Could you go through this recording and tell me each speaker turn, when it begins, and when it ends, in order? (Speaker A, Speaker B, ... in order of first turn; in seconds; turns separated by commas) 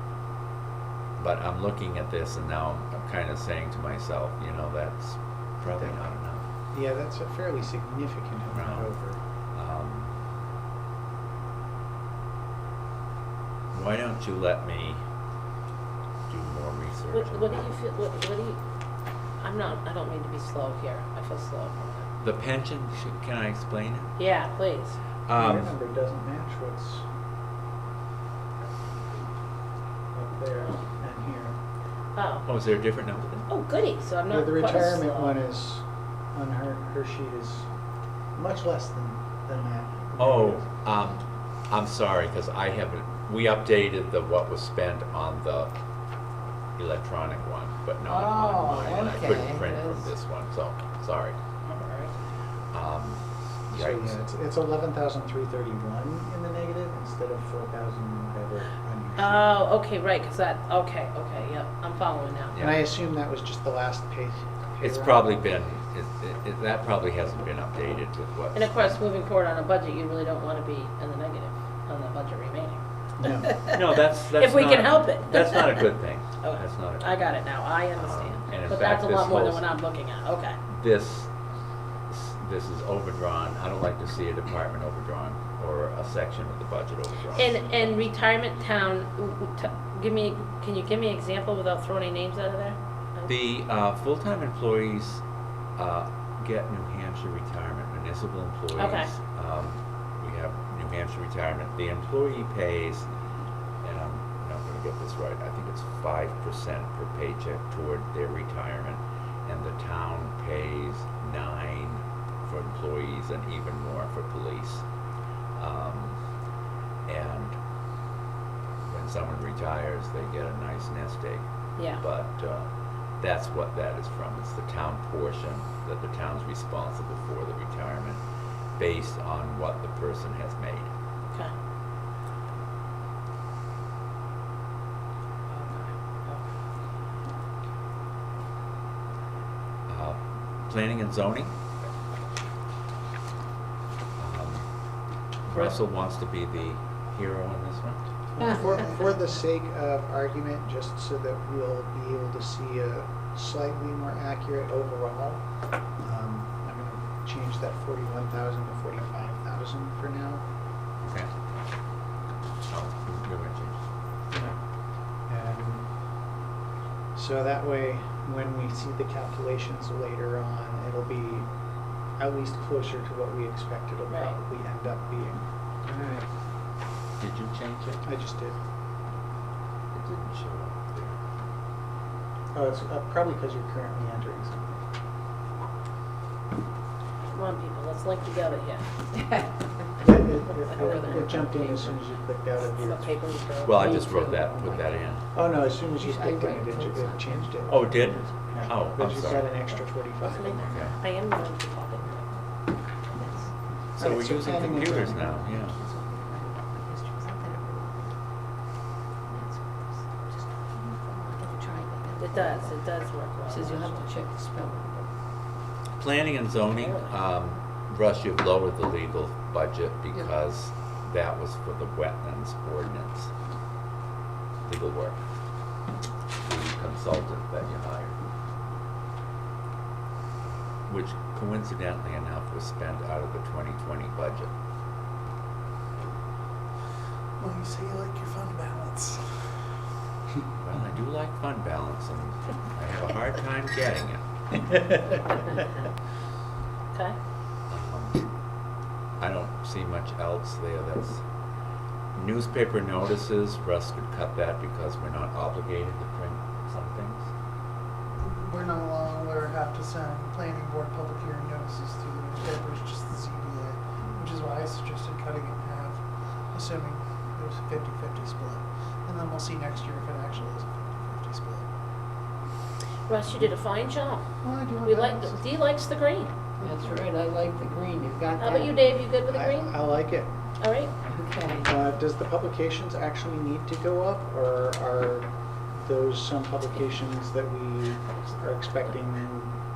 Speaker A: 1.2-6.4, Speaker B: 6.7-9.2, Speaker A: 8.5-8.9, Speaker A: 9.5-10.1, Speaker A: 13.7-15.0, Speaker A: 16.3-17.7, Speaker C: 17.1-18.6, Speaker C: 19.4-22.1, Speaker A: 22.2-24.1, Speaker C: 24.2-25.0, Speaker A: 25.2-25.7, Speaker B: 25.3-27.1, Speaker B: 30.1-31.6, Speaker C: 32.1-32.5, Speaker A: 32.5-33.5, Speaker C: 33.5-35.4, Speaker B: 34.3-37.7, Speaker B: 38.3-40.6, Speaker A: 40.2-45.7, Speaker A: 46.8-51.4, Speaker D: 48.0-50.1, Speaker C: 51.6-52.1, Speaker A: 52.7-54.2, Speaker B: 53.7-59.5, Speaker C: 59.2-62.5, Speaker A: 62.5-62.8, Speaker B: 62.5-65.3, Speaker A: 64.8-68.8, Speaker C: 68.5-72.8, Speaker B: 73.2-73.5, Speaker C: 73.4-75.9, Speaker A: 73.7-77.3, Speaker C: 76.4-80.6, Speaker A: 77.9-79.7, Speaker A: 80.7-81.3, Speaker A: 82.1-87.5, Speaker C: 87.3-93.3, Speaker A: 93.3-95.2, Speaker A: 95.8-103.1, Speaker C: 98.8-99.1, Speaker A: 103.8-114.8, Speaker A: 115.5-116.2, Speaker A: 117.0-117.6, Speaker A: 118.8-121.4, Speaker C: 121.8-122.0, Speaker A: 122.0-122.7, Speaker A: 123.2-128.2, Speaker A: 128.8-130.9, Speaker C: 135.5-136.4, Speaker A: 139.9-141.5, Speaker A: 144.2-144.6, Speaker A: 145.5-148.0, Speaker B: 148.3-155.4, Speaker B: 156.0-160.4, Speaker A: 161.0-161.3, Speaker A: 162.6-163.8, Speaker B: 164.3-164.6, Speaker B: 165.3-165.8, Speaker B: 167.1-171.5, Speaker B: 172.2-176.2, Speaker C: 174.1-174.3, Speaker A: 177.2-178.0, Speaker B: 178.0-178.6, Speaker A: 179.9-181.1, Speaker B: 182.5-184.8, Speaker C: 187.3-188.8, Speaker B: 190.0-193.1, Speaker D: 190.7-191.9, Speaker C: 192.7-194.1, Speaker A: 193.6-195.2, Speaker D: 193.7-194.9, Speaker B: 195.3-200.9, Speaker D: 195.9-198.3, Speaker A: 197.7-199.5, Speaker C: 200.2-202.3, Speaker A: 200.6-200.9, Speaker D: 203.1-203.5, Speaker B: 204.0-205.3, Speaker A: 204.0-205.8, Speaker D: 205.2-208.2, Speaker D: 209.2-212.7, Speaker C: 212.2-214.0, Speaker D: 213.5-215.1, Speaker A: 216.0-223.3, Speaker C: 216.7-217.1, Speaker A: 224.6-225.2, Speaker A: 226.4-228.2, Speaker A: 230.9-234.5, Speaker E: 237.4-239.3, Speaker A: 240.6-244.2, Speaker A: 247.7-248.2, Speaker A: 249.2-251.2, Speaker A: 252.1-257.3, Speaker E: 258.4-271.6, Speaker C: 273.1-274.3, Speaker E: 274.4-275.4, Speaker C: 274.8-276.3, Speaker E: 276.6-277.0, Speaker D: 276.6-278.9, Speaker C: 278.4-279.7, Speaker B: 279.3-280.3, Speaker C: 280.6-280.9, Speaker D: 281.1-281.7, Speaker B: 281.6-285.3, Speaker B: 285.8-289.5